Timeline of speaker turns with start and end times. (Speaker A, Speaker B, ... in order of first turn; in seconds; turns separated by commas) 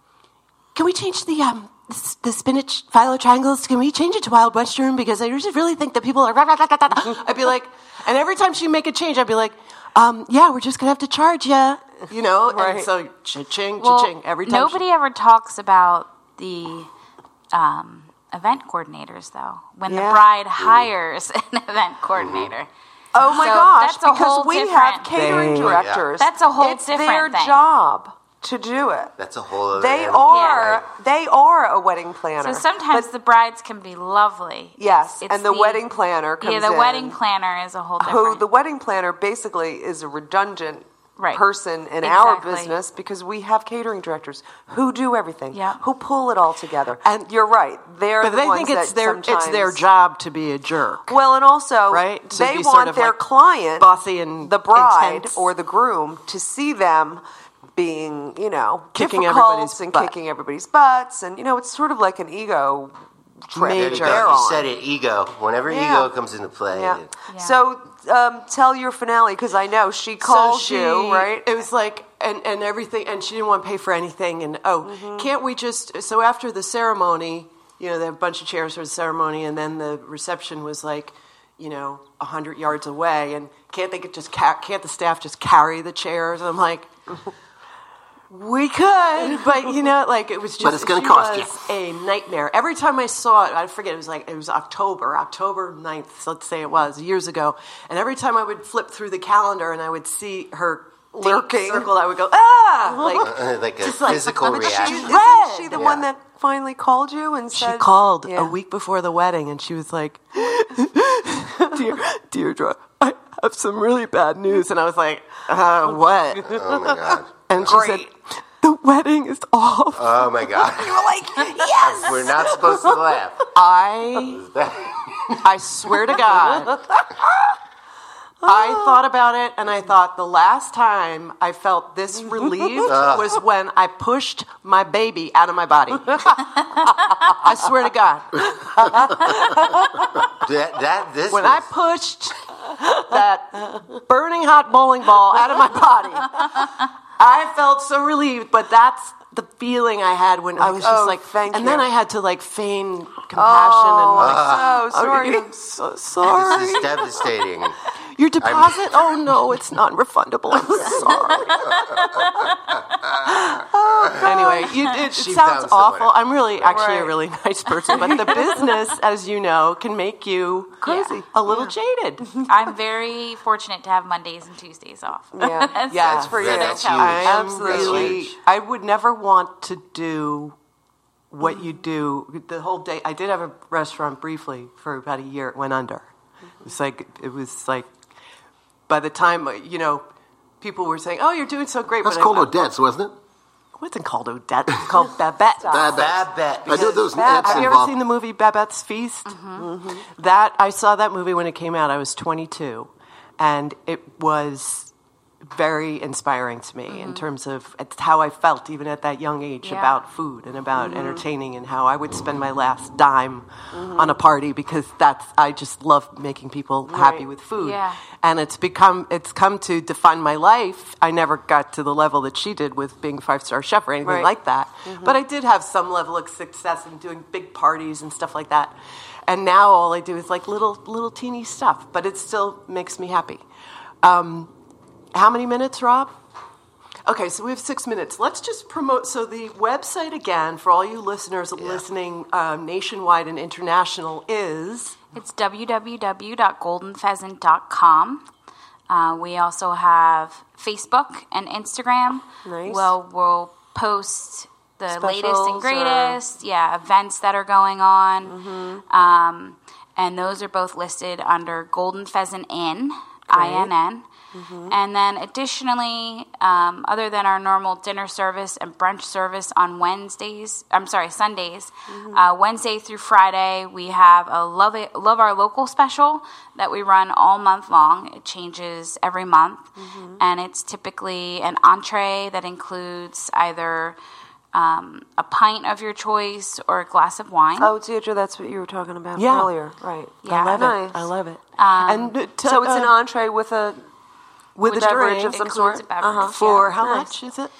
Speaker A: 0.7-14.8, Speaker B: 12.5-12.9, Speaker C: 13.8-16.9, Speaker C: 17.5-22.7, Speaker B: 19.9-20.2, Speaker D: 20.6-20.9, Speaker D: 22.1-22.5, Speaker B: 23.1-29.1, Speaker C: 23.2-25.1, Speaker A: 25.1-25.9, Speaker D: 25.6-26.1, Speaker C: 26.2-27.6, Speaker D: 29.2-30.9, Speaker B: 29.7-33.1, Speaker C: 30.3-30.6, Speaker C: 32.4-35.9, Speaker B: 34.8-37.2, Speaker C: 36.4-38.5, Speaker B: 38.0-49.8, Speaker C: 41.2-41.4, Speaker C: 42.0-42.8, Speaker C: 45.5-45.8, Speaker A: 47.0-47.3, Speaker A: 48.2-51.2, Speaker B: 51.1-53.9, Speaker A: 51.9-53.2, Speaker A: 53.8-55.4, Speaker B: 54.4-57.2, Speaker B: 57.8-62.9, Speaker A: 58.9-60.1, Speaker B: 63.5-64.7, Speaker A: 63.5-64.4, Speaker D: 63.7-67.1, Speaker B: 65.7-66.1, Speaker B: 66.7-71.5, Speaker C: 67.3-67.7, Speaker A: 70.2-86.9, Speaker B: 74.8-75.3, Speaker A: 88.3-105.9, Speaker E: 90.6-91.7, Speaker B: 101.2-101.9, Speaker B: 102.9-103.2, Speaker D: 103.2-106.1, Speaker B: 104.3-108.5, Speaker A: 107.5-116.8, Speaker D: 116.4-117.8, Speaker A: 117.5-120.5, Speaker B: 117.7-118.0, Speaker D: 119.9-123.5, Speaker B: 120.7-122.3, Speaker A: 122.0-122.4, Speaker A: 123.5-124.4, Speaker D: 124.3-125.4, Speaker A: 125.4-126.8, Speaker A: 128.4-140.3, Speaker B: 128.5-128.7, Speaker D: 132.8-133.4, Speaker D: 140.4-141.7, Speaker A: 141.3-157.2, Speaker B: 150.6-151.9, Speaker B: 153.3-155.5, Speaker D: 154.1-154.8, Speaker D: 156.2-157.8, Speaker A: 158.2-161.7, Speaker D: 158.4-159.1, Speaker D: 161.1-161.6, Speaker A: 163.3-163.6, Speaker D: 164.1-166.9, Speaker B: 164.2-164.7, Speaker A: 164.2-172.4, Speaker B: 166.7-167.1, Speaker B: 167.9-168.6, Speaker B: 170.8-171.7, Speaker C: 170.8-171.1, Speaker C: 172.4-177.1, Speaker B: 175.3-178.2, Speaker A: 175.9-180.5, Speaker D: 175.9-178.3, Speaker A: 181.3-186.1, Speaker A: 186.6-187.9, Speaker A: 188.9-190.0, Speaker A: 190.6-192.7, Speaker E: 192.0-193.1, Speaker A: 193.8-195.8, Speaker B: 195.6-195.9, Speaker E: 195.7-197.9, Speaker D: 195.9-197.7, Speaker B: 196.7-197.6, Speaker A: 197.4-199.4, Speaker C: 199.3-199.7, Speaker B: 199.6-200.0, Speaker A: 200.1-204.9, Speaker A: 205.5-233.4, Speaker C: 206.9-207.3, Speaker C: 209.6-210.0, Speaker B: 210.8-211.2, Speaker B: 213.7-214.2, Speaker B: 216.9-217.2, Speaker C: 217.6-218.0, Speaker B: 224.0-224.3, Speaker B: 224.8-225.2, Speaker A: 234.0-234.5, Speaker A: 235.1-236.1, Speaker A: 237.0-245.0, Speaker D: 241.6-241.8, Speaker C: 245.1-248.2, Speaker C: 248.9-264.1, Speaker B: 252.4-252.9, Speaker B: 254.9-256.2, Speaker B: 258.3-258.8, Speaker B: 263.3-263.7, Speaker B: 264.3-264.8, Speaker C: 264.7-284.0, Speaker B: 271.9-272.2, Speaker B: 279.8-280.2, Speaker C: 284.5-287.7, Speaker B: 287.6-291.0, Speaker A: 289.1-289.5, Speaker C: 290.2-290.7, Speaker A: 290.3-292.9, Speaker C: 291.6-292.1, Speaker B: 292.4-293.8, Speaker A: 294.6-295.4, Speaker C: 294.6-296.9, Speaker B: 294.7-297.1, Speaker A: 296.3-297.5